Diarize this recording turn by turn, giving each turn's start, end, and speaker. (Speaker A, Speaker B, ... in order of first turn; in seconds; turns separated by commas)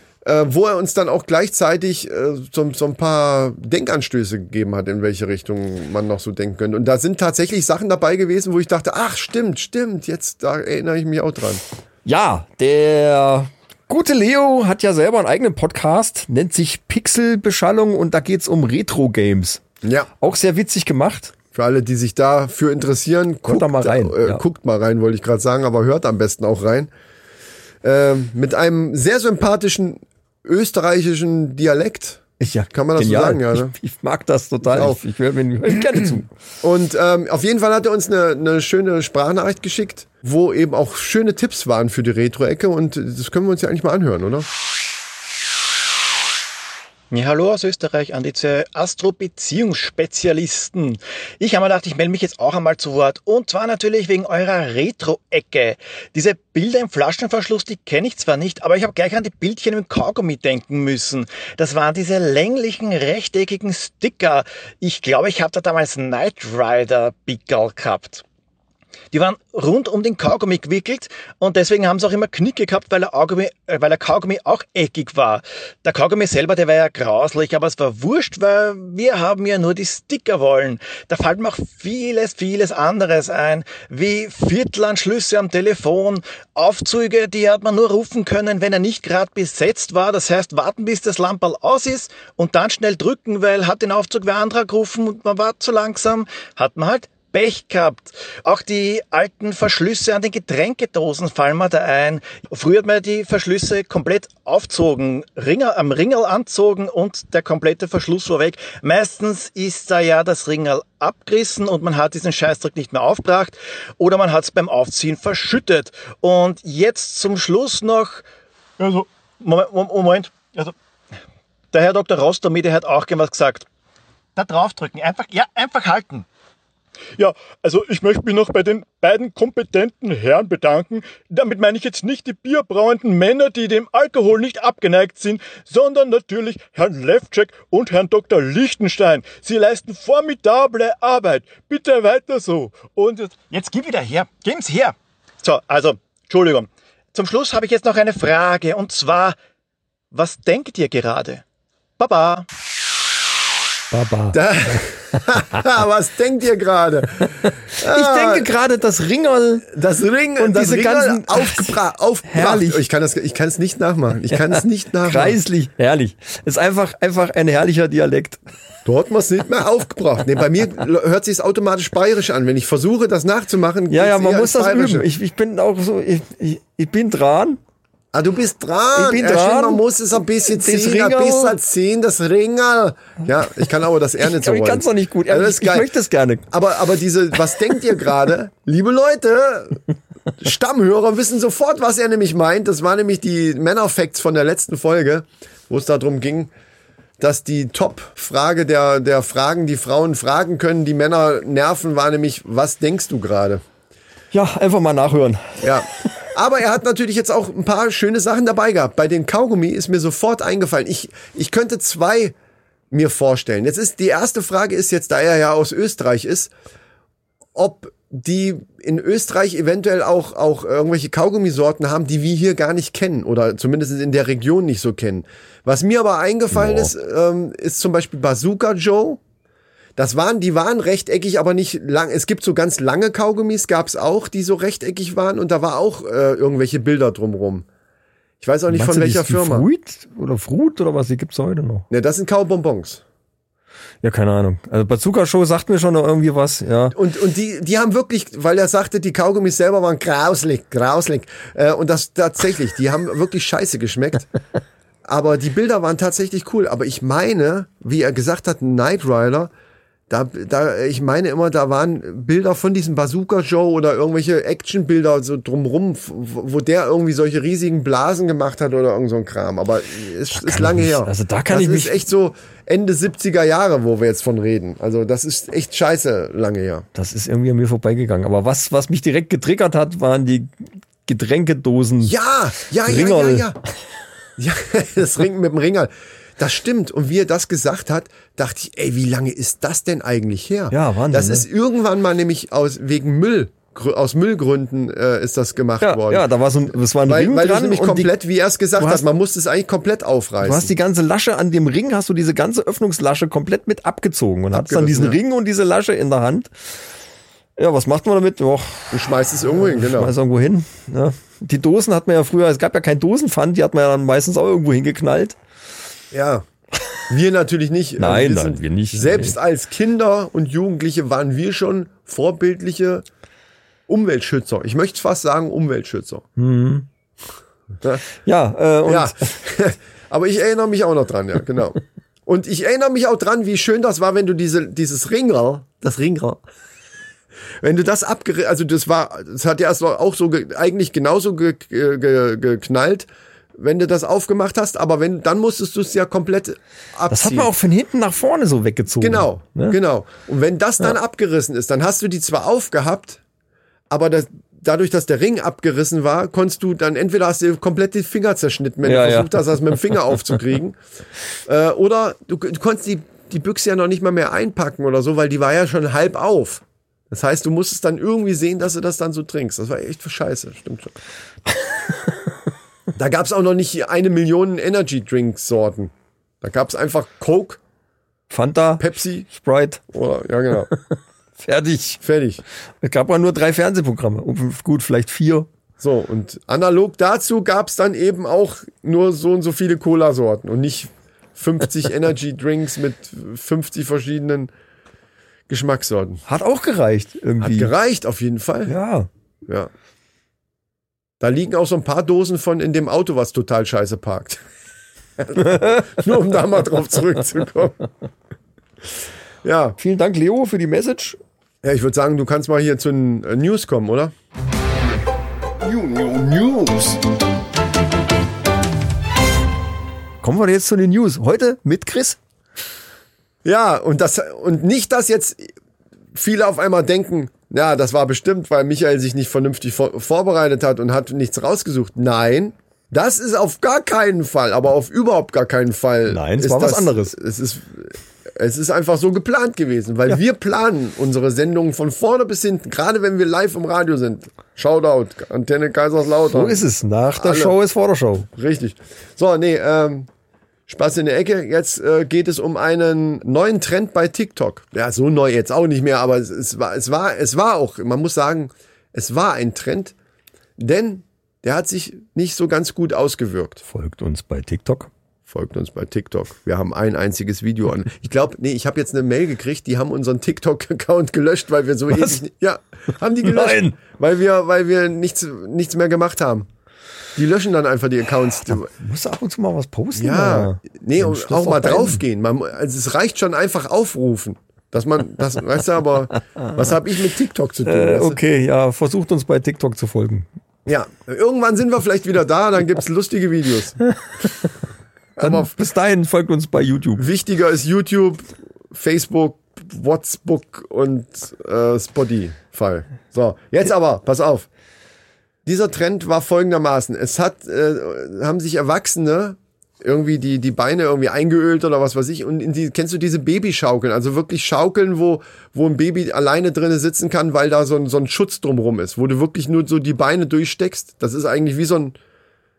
Speaker A: 0.2-11.6, Speaker B: 12.1-19.6, Speaker A: 19.8-20.1, Speaker B: 20.2-21.4, Speaker A: 21.5-26.9, Speaker B: 23.5-24.4, Speaker A: 27.8-33.7, Speaker B: 32.4-36.3, Speaker A: 34.7-35.0, Speaker A: 36.6-44.5, Speaker C: 47.1-68.2, Speaker C: 69.1-118.2, Speaker C: 118.8-120.8, Speaker C: 121.7-123.7, Speaker C: 124.3-126.3, Speaker C: 127.2-149.4, Speaker C: 150.1-151.4, Speaker C: 152.0-152.5, Speaker B: 153.9-154.4, Speaker A: 154.3-158.5, Speaker B: 157.4-159.7, Speaker A: 159.7-165.4, Speaker B: 160.4-161.8, Speaker B: 162.3-162.8, Speaker B: 164.5-168.4, Speaker A: 168.9-175.1, Speaker B: 173.9-177.6, Speaker A: 178.1-185.9, Speaker B: 178.9-181.6, Speaker B: 184.2-186.5, Speaker A: 186.5-189.8, Speaker A: 190.4-196.5, Speaker A: 197.2-203.6, Speaker B: 204.3-205.7, Speaker A: 205.6-212.3, Speaker A: 212.9-216.5, Speaker A: 217.6-229.2, Speaker A: 230.0-237.7, Speaker A: 238.4-239.7, Speaker B: 238.7-241.9, Speaker A: 241.9-243.0, Speaker B: 244.0-247.0, Speaker A: 246.9-254.3, Speaker A: 255.1-259.5, Speaker A: 260.1-276.9, Speaker B: 270.3-272.0, Speaker B: 276.9-282.1, Speaker A: 282.0-283.6, Speaker B: 282.8-283.5, Speaker A: 284.4-296.3, Speaker B: 290.7-291.5, Speaker B: 295.8-298.1, Speaker A: 297.1-300.7, Speaker B: 298.8-299.0, Speaker B: 300.4-306.5, Speaker A: 304.5-305.2, Speaker B: 307.6-309.0, Speaker A: 308.9-310.1, Speaker B: 309.6-315.4, Speaker A: 316.1-316.5, Speaker A: 317.1-323.1, Speaker B: 318.0-319.4, Speaker A: 323.9-326.3, Speaker B: 326.4-326.9, Speaker B: 328.2-329.4, Speaker A: 328.9-336.4, Speaker A: 337.6-347.5, Speaker B: 347.1-349.8, Speaker A: 349.0-353.2, Speaker A: 353.9-360.8, Speaker B: 358.8-359.9, Speaker A: 361.5-370.9, Speaker A: 372.9-377.6, Speaker B: 378.3-379.8, Speaker A: 378.8-379.3, Speaker A: 379.9-380.7, Speaker B: 380.7-382.0, Speaker A: 382.0-382.4, Speaker B: 382.8-385.5, Speaker A: 385.8-394.5, Speaker A: 395.5-396.2, Speaker B: 396.3-397.7, Speaker A: 397.4-398.7, Speaker B: 398.7-399.1, Speaker A: 401.2-404.4, Speaker A: 405.2-407.8, Speaker B: 405.4-405.8, Speaker A: 409.4-409.8, Speaker B: 409.8-411.2, Speaker A: 411.6-414.1, Speaker A: 415.6-417.0, Speaker B: 420.2-422.2, Speaker A: 423.4-425.5, Speaker A: 426.1-446.6, Speaker B: 436.1-437.2, Speaker B: 446.3-448.3, Speaker A: 447.2-447.6, Speaker A: 448.3-450.1, Speaker A: 450.7-459.9, Speaker A: 460.6-463.6, Speaker B: 463.7-464.9, Speaker A: 465.3-476.5, Speaker B: 473.2-473.8, Speaker A: 477.2-478.7, Speaker B: 478.7-482.0, Speaker A: 479.9-488.2, Speaker B: 487.7-490.3, Speaker A: 490.7-493.8, Speaker A: 495.2-495.5, Speaker B: 495.2-497.0, Speaker A: 497.0-504.5, Speaker A: 505.5-522.0